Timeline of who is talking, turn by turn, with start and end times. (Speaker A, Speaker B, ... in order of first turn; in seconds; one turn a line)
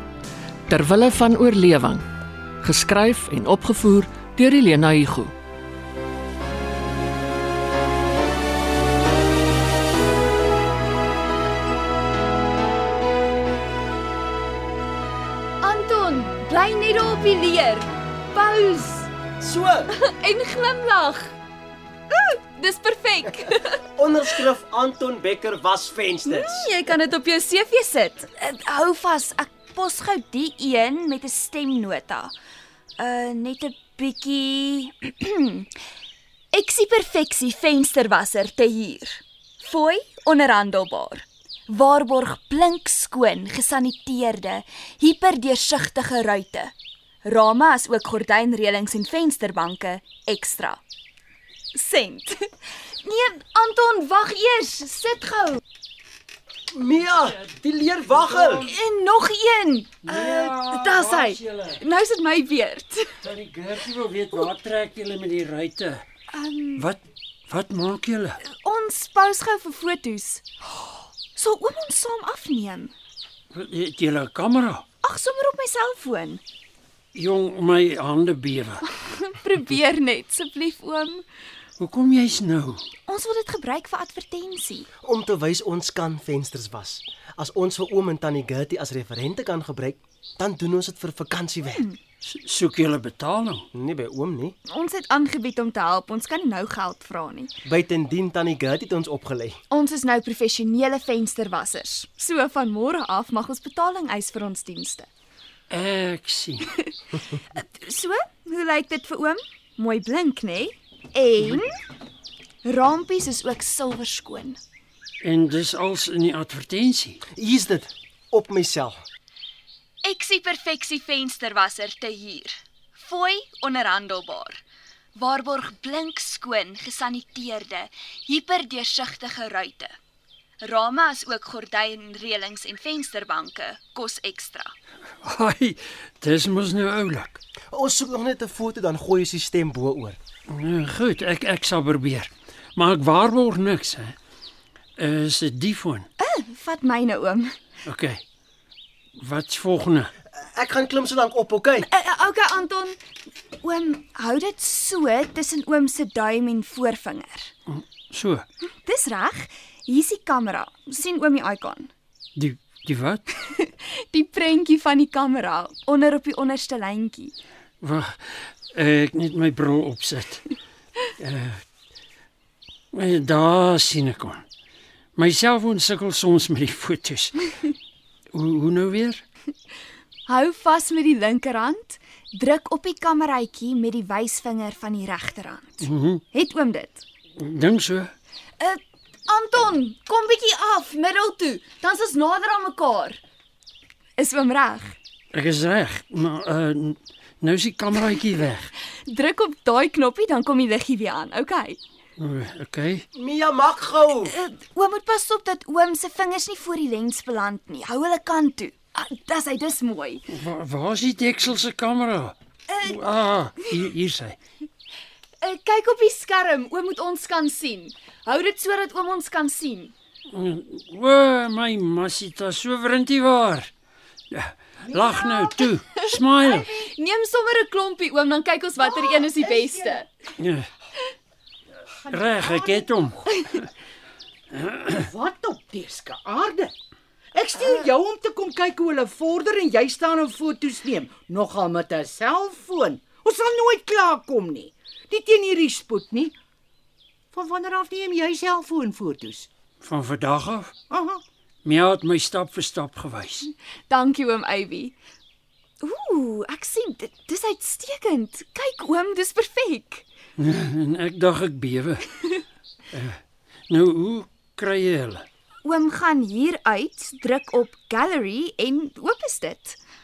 Speaker A: 0.7-2.0
Speaker A: 2.6-5.3
Speaker B: 15.6-19.1
Speaker C: 19.4-19.9
Speaker B: 19.9-21.3
Speaker B: 22.1-23.8
Speaker C: 24.0-26.7
Speaker B: 26.2-32.3
Speaker B: 33.0-35.7
Speaker B: 36.5-46.7
Speaker B: 47.2-50.8
Speaker B: 51.7-55.6
Speaker C: 56.7-58.7
Speaker B: 58.4-63.2
Speaker D: 60.0-61.8
Speaker D: 63.2-66.0
Speaker B: 66.3-66.9
Speaker D: 66.8-68.4
Speaker B: 68.4-72.9
Speaker D: 73.5-74.8
Speaker B: 75.0-76.4
Speaker D: 77.1-78.8
Speaker B: 78.9-81.2
Speaker D: 81.8-82.8
Speaker B: 83.1-84.9
Speaker C: 85.0-91.8
Speaker D: 92.2-93.7
Speaker C: 93.7-94.5
Speaker B: 94.7-97.5
Speaker C: 97.6-99.6
Speaker B: 99.7-105.1
Speaker D: 105.7-106.7
Speaker B: 107.5-111.7
Speaker B: 112.6-114.6
Speaker D: 115.2-117.2
Speaker C: 117.3-119.0
Speaker B: 120.0-124.6
Speaker B: 125.1-129.9
Speaker B: 130.6-134.7
Speaker D: 135.2-137.4
Speaker C: 137.7-140.2
Speaker D: 140.5-144.2
Speaker D: 145.0-146.1
Speaker B: 146.2-147.5
Speaker D: 147.8-148.2
Speaker D: 149.2-150.1
Speaker C: 150.3-151.9
Speaker B: 151.9-153.0
Speaker B: 153.6-157.5
Speaker D: 157.7-158.4
Speaker B: 158.8-161.9
Speaker D: 162.3-163.3
Speaker B: 163.4-167.3
Speaker D: 167.8-170.4
Speaker D: 171.2-171.6
Speaker D: 172.9-174.4
Speaker D: 175.1-177.5
Speaker D: 178.3-179.2
Speaker B: 180.2-187.0
Speaker D: 185.8-186.2
Speaker D: 187.4-188.1
Speaker B: 188.6-193.2
Speaker B: 194.2-194.9
Speaker D: 195.3-198.7
Speaker B: 199.0-201.8
Speaker D: 202.2-203.1
Speaker C: 203.1-204.3
Speaker B: 204.3-210.3
Speaker D: 210.3-214.4
Speaker B: 212.7-213.0
Speaker B: 215.4-219.9
Speaker D: 220.3-223.7
Speaker D: 224.3-226.7
Speaker B: 226.4-230.1
Speaker E: 229.1-230.0
Speaker D: 230.4-230.7
Speaker E: 232.1-232.9
Speaker D: 232.1-233.7
Speaker D: 234.5-235.1
Speaker E: 234.9-236.7
Speaker E: 237.3-246.3
Speaker E: 247.3-249.5
Speaker D: 249.8-250.7
Speaker E: 250.9-251.2
Speaker D: 251.6-253.5
Speaker B: 253.9-255.0
Speaker B: 255.8-260.0
Speaker D: 260.4-262.1
Speaker D: 262.9-265.2
Speaker B: 265.6-269.8